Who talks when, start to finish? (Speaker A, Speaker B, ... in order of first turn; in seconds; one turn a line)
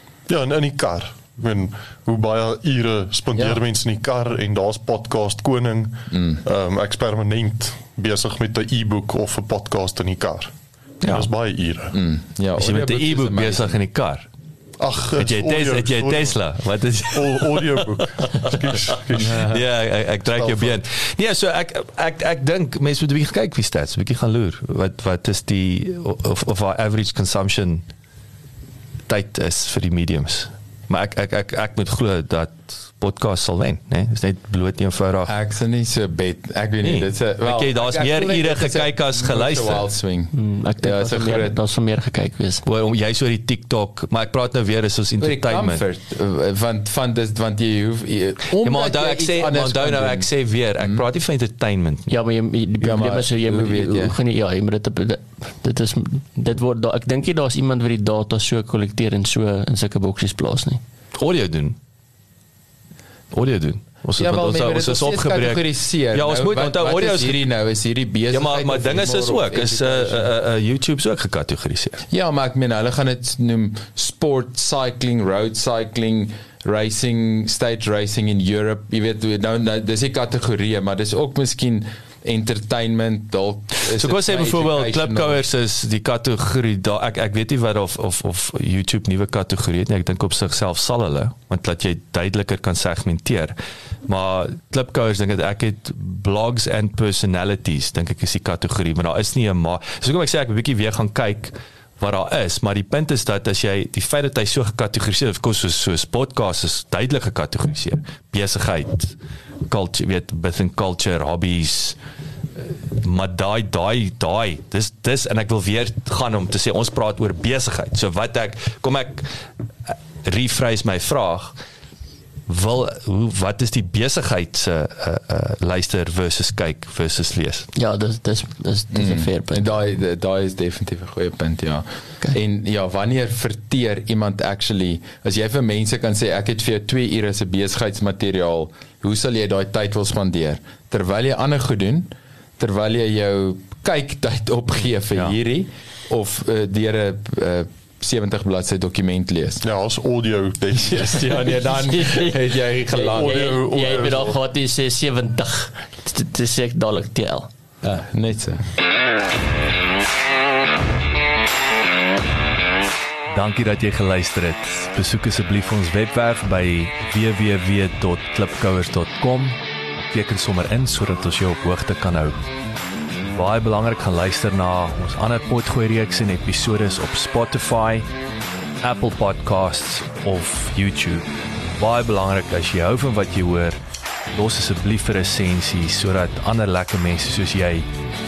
Speaker A: 0.3-12.0
Speaker B: 3.4-3.6
Speaker B: 6.1-6.4
Speaker C: 11.0-11.3
Speaker B: 11.9-13.8
Speaker C: 12.6-14.3
Speaker A: 14.8-16.4
Speaker C: 15.1-27.9
Speaker A: 17.1-19.6
Speaker B: 20.4-20.8
Speaker C: 29.1-35.3
Speaker B: 35.2-41.6
Speaker C: 36.8-39.9
Speaker D: 40.3-42.6
Speaker C: 42.6-45.8
Speaker B: 45.2-50.3
Speaker C: 48.6-52.1
Speaker D: 52.1-60.8
Speaker B: 52.8-54.1
Speaker C: 61.1-61.8
Speaker C: 63.3-67.4
Speaker B: 64.2-70.3
Speaker C: 68.3-72.0
Speaker B: 72.1-85.4
Speaker C: 83.9-109.2
Speaker C: 109.7-112.0
Speaker C: 112.6-121.6
Speaker C: 122.5-127.7
Speaker D: 127.8-129.8
Speaker B: 128.9-149.6
Speaker A: 149.6-151.8
Speaker B: 150.8-154.0
Speaker D: 151.7-157.5
Speaker A: 153.0-154.4
Speaker B: 157.8-158.7
Speaker C: 163.3-172.4
Speaker C: 173.3-178.1
Speaker C: 178.8-183.8
Speaker C: 184.3-187.9